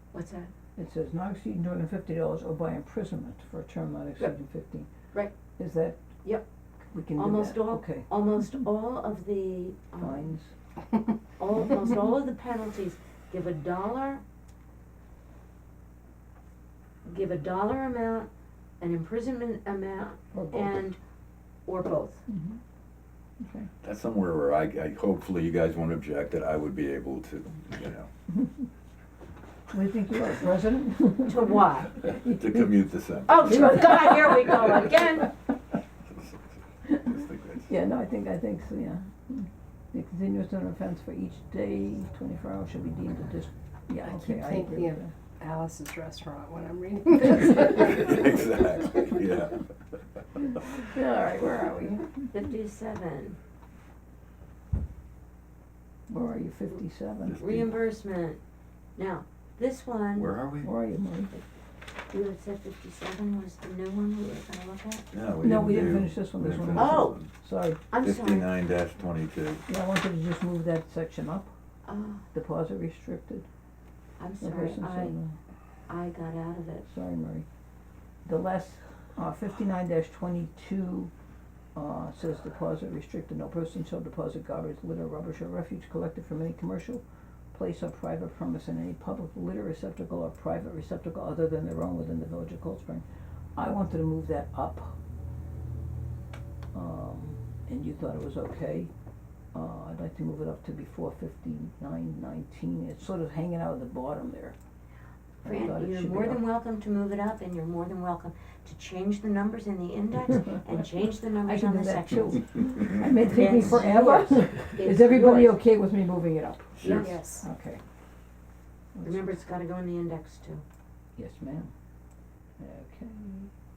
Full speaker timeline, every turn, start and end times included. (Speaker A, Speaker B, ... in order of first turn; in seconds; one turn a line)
Speaker A: 0.1-0.5
Speaker B: 0.8-4.9
Speaker B: 5.6-6.0
Speaker B: 6.9-8.1
Speaker A: 7.2-10.3
Speaker B: 10.0-10.5
Speaker A: 11.4-14.2
Speaker A: 17.1-18.3
Speaker A: 18.8-21.0
Speaker B: 20.3-20.8
Speaker A: 21.6-22.2
Speaker B: 22.3-22.6
Speaker B: 23.4-23.7
Speaker C: 23.8-28.1
Speaker B: 29.7-32.8
Speaker A: 31.2-31.9
Speaker C: 32.2-33.9
Speaker A: 33.3-35.3
Speaker B: 33.5-35.2
Speaker C: 36.1-36.4
Speaker C: 37.0-37.7
Speaker B: 37.7-45.1
Speaker D: 44.0-48.2
Speaker C: 47.5-49.6
Speaker B: 50.7-52.1
Speaker A: 52.3-53.4
Speaker B: 56.1-57.4
Speaker C: 57.2-57.8
Speaker A: 57.3-58.4
Speaker A: 59.0-60.3
Speaker C: 60.1-60.7
Speaker B: 60.6-61.4
Speaker A: 62.1-65.1
Speaker C: 65.1-67.3
Speaker B: 65.4-67.8
Speaker A: 66.7-67.2
Speaker A: 67.9-68.5
Speaker C: 68.0-69.6
Speaker B: 69.7-71.5
Speaker A: 71.8-72.2
Speaker B: 72.3-73.5
Speaker A: 74.2-75.2
Speaker B: 74.4-75.3
Speaker A: 75.9-76.8
Speaker B: 76.8-77.5
Speaker B: 78.2-81.1
Speaker B: 81.8-93.0
Speaker B: 93.5-95.0
Speaker B: 96.7-98.9
Speaker B: 99.5-104.5
Speaker B: 105.4-106.4
Speaker A: 105.4-112.4
Speaker B: 111.4-116.8
Speaker A: 113.2-115.6
Speaker C: 116.8-117.2
Speaker A: 116.8-117.2
Speaker D: 116.9-117.5
Speaker B: 117.4-117.8
Speaker B: 118.9-119.3
Speaker A: 119.0-120.6
Speaker B: 121.2-121.7
Speaker B: 122.6-123.5